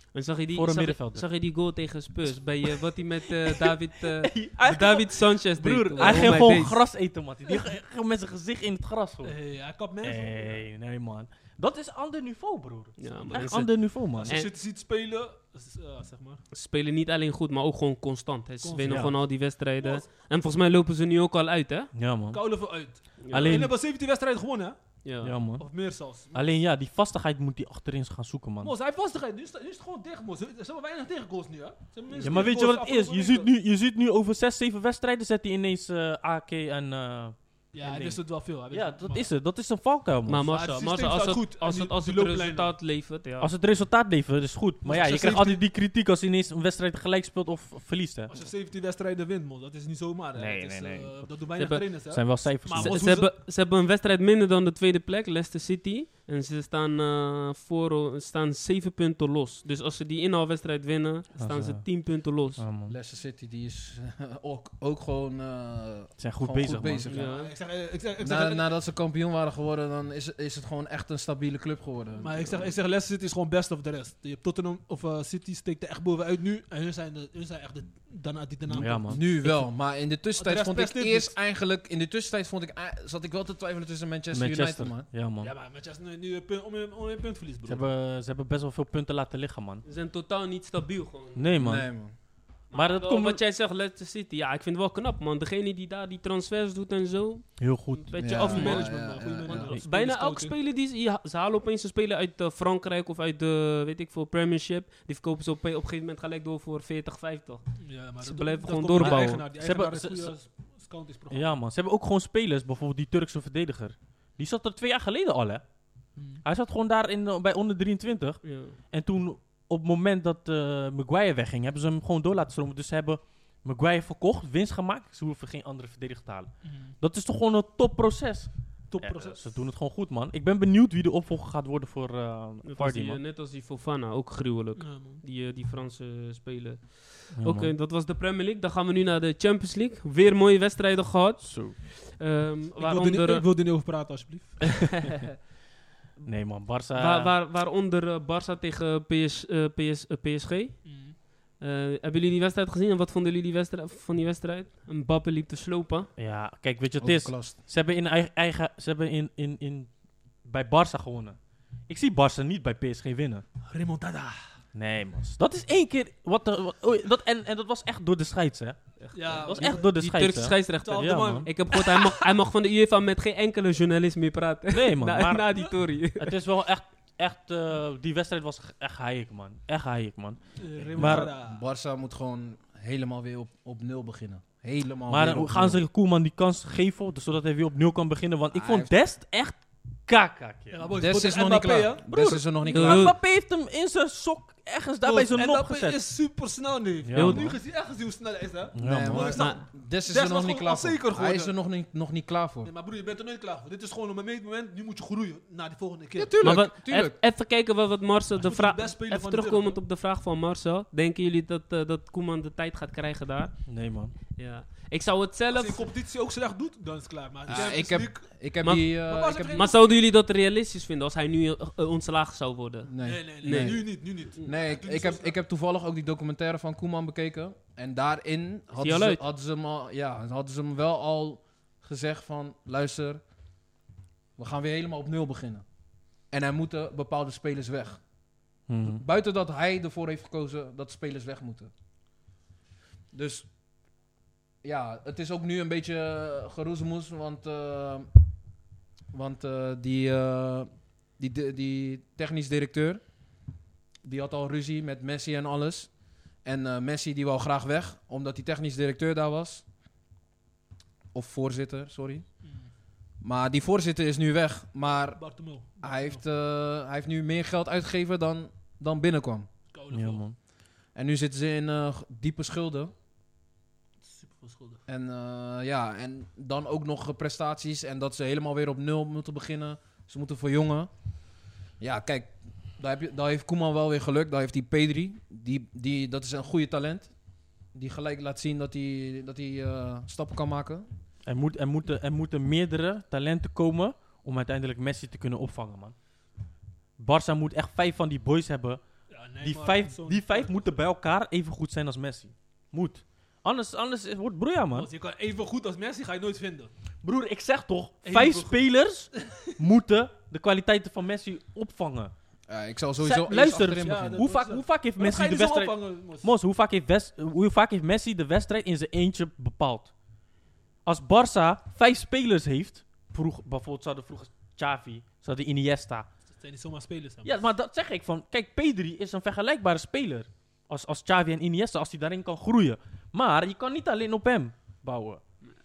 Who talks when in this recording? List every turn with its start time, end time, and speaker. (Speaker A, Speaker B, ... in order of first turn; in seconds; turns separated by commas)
Speaker A: 0.1-6.8, Speaker B: 0.5-1.2, Speaker B: 3.5-9.3, Speaker C: 6.0-6.4, Speaker C: 9.2-10.6, Speaker B: 10.0-14.4, Speaker A: 13.0-14.5, Speaker C: 14.1-16.4, Speaker A: 16.5-21.9, Speaker C: 18.6-19.2, Speaker B: 18.9-19.1, Speaker C: 19.8-20.0, Speaker B: 21.9-22.6, Speaker C: 22.3-24.8, Speaker A: 23.2-23.6, Speaker B: 23.3-23.7, Speaker A: 25.0-25.3, Speaker B: 25.2-28.7, Speaker C: 25.6-26.4, Speaker C: 28.6-33.5, Speaker B: 32.2-40.5, Speaker C: 37.7-39.3, Speaker A: 40.3-43.5, Speaker C: 40.5-42.7, Speaker B: 43.4-48.3, Speaker C: 44.8-45.6, Speaker C: 48.3-53.3, Speaker B: 50.4-51.3, Speaker A: 51.6-51.9, Speaker B: 51.8-53.0, Speaker A: 52.7-62.6, Speaker B: 61.4-61.9, Speaker B: 62.6-62.9, Speaker D: 62.9-67.3, Speaker B: 66.2-67.0, Speaker C: 67.0-68.7, Speaker A: 67.1-67.5, Speaker D: 68.2-72.7, Speaker C: 72.2-79.7, Speaker B: 78.7-79.2, Speaker D: 79.1-85.1, Speaker C: 80.4-81.3, Speaker B: 84.3-85.5, Speaker C: 85.4-87.9, Speaker B: 87.6-89.8, Speaker A: 89.8-91.5, Speaker B: 91.3-91.9, Speaker D: 91.6-92.1, Speaker A: 92.7-98.9, Speaker B: 92.7-93.4, Speaker B: 97.6-98.6, Speaker D: 98.2-99.7, Speaker C: 98.4-100.5, Speaker A: 99.5-107.7, Speaker C: 107.8-111.5, Speaker A: 108.2-109.4, Speaker B: 109.0-110.3, Speaker B: 111.3-115.6, Speaker C: 116.2-116.4, Speaker B: 116.4-133.2, Speaker A: 118.4-118.8, Speaker C: 126.7-126.9, Speaker C: 128.9-129.5, Speaker A: 132.6-143.4, Speaker C: 134.8-135.2, Speaker B: 137.3-137.7, Speaker B: 141.4-141.8, Speaker C: 142.8-145.0, Speaker B: 146.2-147.3, Speaker A: 146.9-151.0, Speaker C: 150.8-151.2, Speaker A: 151.6-156.1, Speaker B: 156.2-159.9, Speaker D: 157.0-157.6, Speaker B: 160.4-161.4, Speaker B: 161.9-163.4, Speaker C: 163.7-164.4, Speaker B: 164.7-171.5, Speaker A: 169.0-176.3, Speaker C: 169.1-169.8, Speaker C: 170.8-172.1, Speaker B: 174.7-180.4, Speaker C: 180.6-181.6, Speaker D: 180.8-185.8, Speaker B: 180.9-181.3, Speaker B: 185.1-190.9, Speaker D: 188.5-188.9, Speaker C: 190.7-192.0, Speaker D: 191.0-193.1, Speaker B: 192.1-196.0, Speaker A: 192.7-193.2, Speaker C: 195.0-201.5, Speaker B: 197.0-197.6, Speaker A: 197.1-197.4, Speaker B: 198.7-199.3, Speaker D: 198.8-202.7, Speaker A: 199.3-199.6, Speaker C: 202.6-206.5, Speaker D: 206.2-207.2, Speaker A: 206.4-213.5, Speaker C: 208.3-209.8, Speaker B: 213.7-214.1, Speaker A: 214.4-215.9, Speaker C: 215.5-218.3, Speaker D: 217.5-219.7, Speaker A: 218.6-224.5, Speaker C: 219.0-219.8, Speaker D: 222.9-233.2, Speaker C: 223.0-225.3, Speaker A: 228.8-229.2, Speaker D: 234.4-235.6, Speaker D: 236.3-238.0, Speaker B: 238.7-239.0, Speaker D: 238.8-241.7, Speaker D: 243.1-243.5, Speaker D: 244.6-248.1, Speaker D: 249.1-253.0, Speaker D: 254.0-255.9, Speaker D: 256.4-259.6, Speaker D: 261.1-262.2, Speaker C: 262.4-262.7, Speaker D: 263.2-265.2, Speaker C: 265.0-266.2, Speaker D: 265.8-269.5, Speaker C: 269.7-270.2, Speaker B: 269.9-270.4, Speaker D: 270.9-272.9, Speaker C: 274.0-274.8, Speaker D: 274.9-280.9, Speaker D: 281.8-287.1, Speaker D: 287.7-290.9, Speaker B: 291.2-295.9, Speaker B: 297.0-298.8, Speaker C: 299.1-300.8, Speaker B: 299.4-304.9, Speaker C: 304.7-306.7, Speaker B: 307.0-312.1, Speaker C: 308.0-308.6, Speaker D: 312.5-314.2, Speaker B: 313.0-319.9, Speaker C: 313.8-316.3, Speaker B: 320.8-326.1, Speaker C: 326.3-327.4, Speaker B: 327.2-335.2